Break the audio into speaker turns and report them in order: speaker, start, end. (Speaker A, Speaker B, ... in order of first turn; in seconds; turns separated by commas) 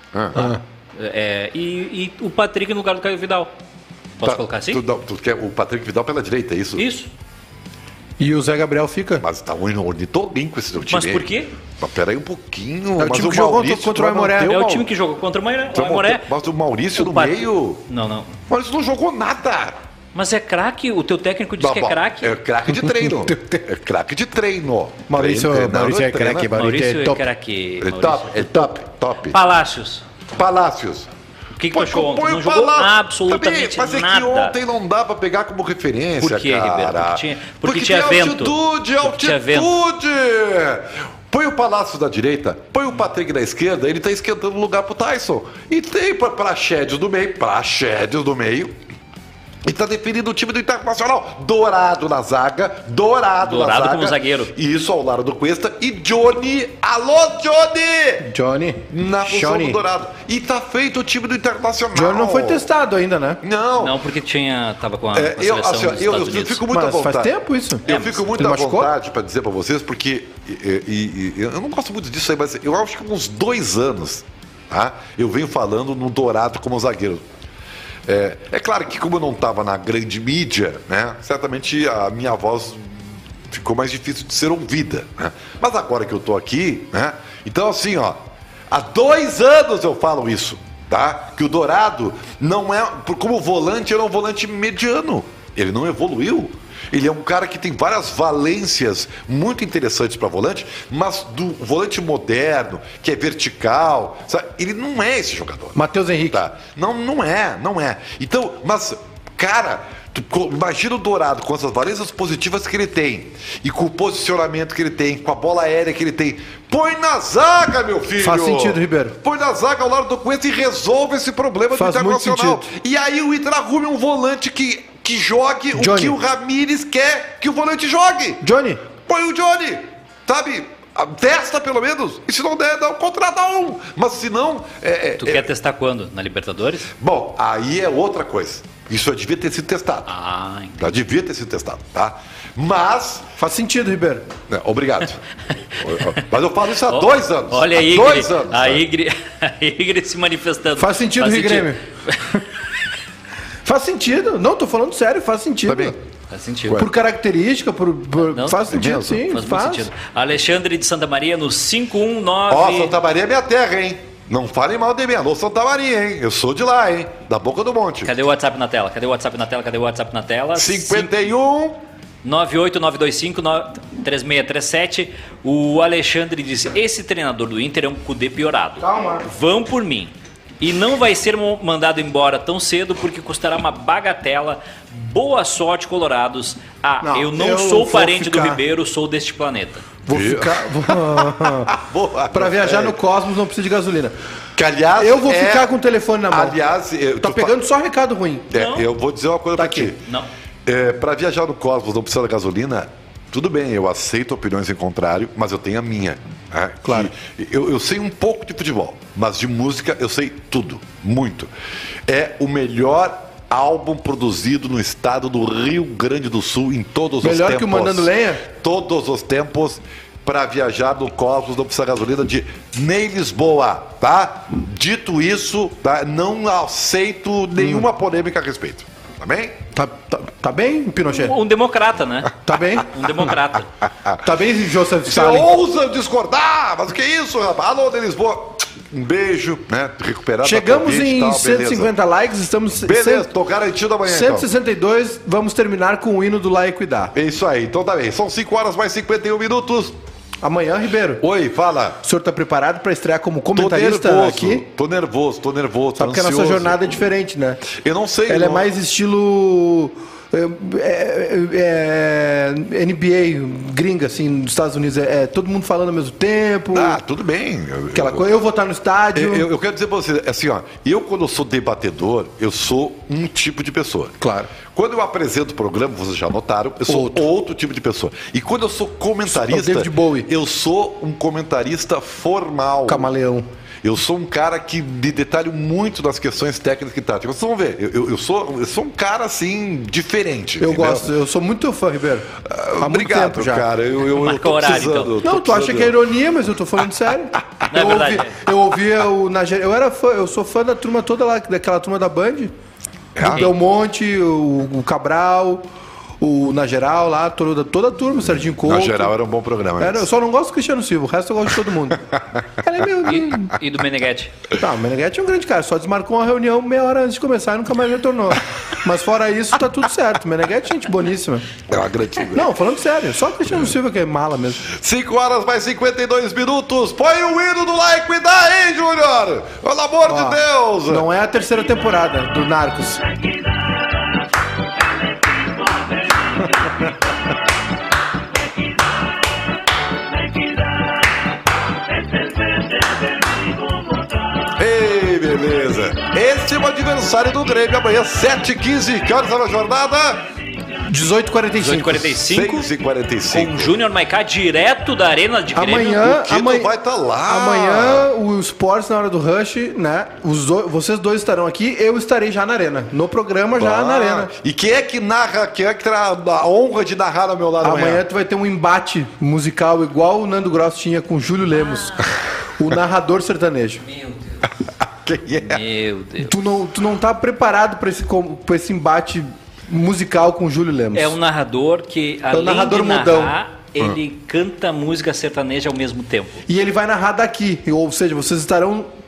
Speaker A: 0.1-0.5, Speaker B: 0.3-0.6, Speaker C: 0.9-3.5, Speaker C: 4.2-4.8, Speaker A: 4.2-6.8, Speaker C: 6.8-7.1, Speaker B: 8.2-9.2, Speaker A: 9.2-11.3, Speaker C: 10.9-11.5, Speaker A: 11.8-14.9, Speaker B: 13.0-14.6, Speaker C: 14.5-16.3, Speaker A: 15.7-17.8, Speaker C: 16.9-18.4, Speaker A: 18.5-19.8, Speaker C: 20.1-22.4, Speaker A: 21.6-26.5, Speaker B: 22.7-23.6, Speaker B: 25.1-27.2, Speaker C: 26.5-28.7, Speaker A: 27.8-29.4, Speaker C: 29.2-30.0, Speaker A: 30.4-31.1, Speaker C: 31.6-34.6, Speaker A: 31.7-48.7, Speaker C: 36.2-39.7, Speaker A: 49.6-58.3, Speaker C: 53.4-54.5, Speaker B: 58.2-59.8, Speaker A: 58.9-62.7, Speaker B: 61.9-63.4, Speaker A: 63.4-64.0, Speaker C: 63.8-66.6, Speaker A: 65.1-77.2, Speaker B: 66.7-67.8, Speaker C: 67.9-68.2, Speaker B: 68.3-68.9, Speaker A: 78.0-82.9, Speaker A: 83.5-128.4, Speaker B: 105.7-106.4, Speaker B: 118.2-119.2, Speaker B: 121.7-122.7, Speaker B: 125.7-126.2, Speaker B: 128.4-128.8, Speaker A: 129.1-135.5, Speaker C: 135.2-136.9, Speaker A: 137.0-140.1, Speaker C: 140.1-140.8, Speaker A: 140.8-143.2, Speaker B: 143.4-144.2, Speaker A: 144.5-145.2, Speaker A: 145.8-148.8, Speaker C: 146.9-152.2, Speaker B: 150.8-151.8, Speaker B: 153.6-155.9, Speaker A: 155.7-155.9, Speaker C: 156.3-156.9, Speaker B: 156.8-159.9, Speaker C: 158.3-162.9, Speaker A: 158.7-159.2, Speaker A: 162.5-168.1, Speaker C: 168.0-171.1, Speaker A: 170.5-171.8, Speaker C: 172.2-189.9, Speaker B: 178.8-179.2, Speaker B: 187.0-188.6, Speaker B: 190.1-194.1, Speaker A: 190.1-193.0, Speaker A: 194.6-195.7, Speaker B: 195.0-196.6, Speaker A: 196.3-197.5, Speaker B: 197.2-198.5, Speaker A: 198.5-200.0, Speaker C: 198.5-198.9, Speaker B: 199.6-199.9, Speaker C: 200.0-200.3, Speaker A: 200.7-211.5, Speaker B: 206.8-207.1, Speaker A: 212.1-229.6, Speaker B: 217.2-218.4, Speaker B: 227.6-227.9, Speaker B: 229.7-231.4, Speaker C: 231.1-233.7, Speaker B: 232.4-232.9, Speaker B: 234.2-235.5, Speaker A: 235.1-241.9, Speaker B: 240.4-243.3, Speaker A: 242.8-244.5, Speaker B: 244.0-247.1, Speaker A: 247.1-249.9, Speaker B: 250.4-251.2, Speaker A: 251.2-252.0, Speaker B: 252.0-254.7, Speaker A: 253.5-257.0, Speaker B: 256.0-257.8, Speaker A: 257.7-258.7, Speaker B: 258.3-267.0, Speaker A: 266.7-268.2, Speaker B: 267.9-269.5, Speaker A: 269.1-274.1, Speaker B: 274.2-274.5, Speaker A: 274.7-283.1, Speaker B: 276.9-277.3, Speaker B: 279.3-280.3, Speaker B: 282.9-283.5, Speaker A: 283.8-291.1, Speaker B: 290.6-293.6, Speaker A: 292.4-296.0, Speaker C: 294.1-295.1, Speaker B: 295.2-302.5, Speaker C: 297.7-298.4, Speaker A: 303.1-303.5, Speaker B: 303.2-305.6, Speaker C: 303.3-303.5, Speaker B: 306.2-309.1, Speaker A: 308.6-310.1, Speaker B: 309.8-313.6, Speaker C: 313.0-314.4, Speaker B: 314.6-321.5, Speaker A: 321.7-322.5, Speaker B: 322.3-324.6, Speaker A: 324.7-331.1, Speaker B: 330.1-333.0, Speaker A: 344.5-350.2, Speaker B: 350.8-352.2, Speaker C: 351.6-352.7, Speaker A: 352.2-353.7, Speaker C: 353.3-356.1, Speaker B: 355.5-356.7, Speaker A: 355.9-358.1, Speaker B: 357.2-364.3, Speaker A: 363.6-368.0, Speaker B: 367.6-373.8, Speaker C: 373.9-374.4, Speaker A: 374.8-375.6, Speaker C: 375.4-376.3, Speaker B: 376.2-381.1, Speaker C: 380.9-386.4, Speaker B: 382.3-383.3, Speaker B: 386.5-388.9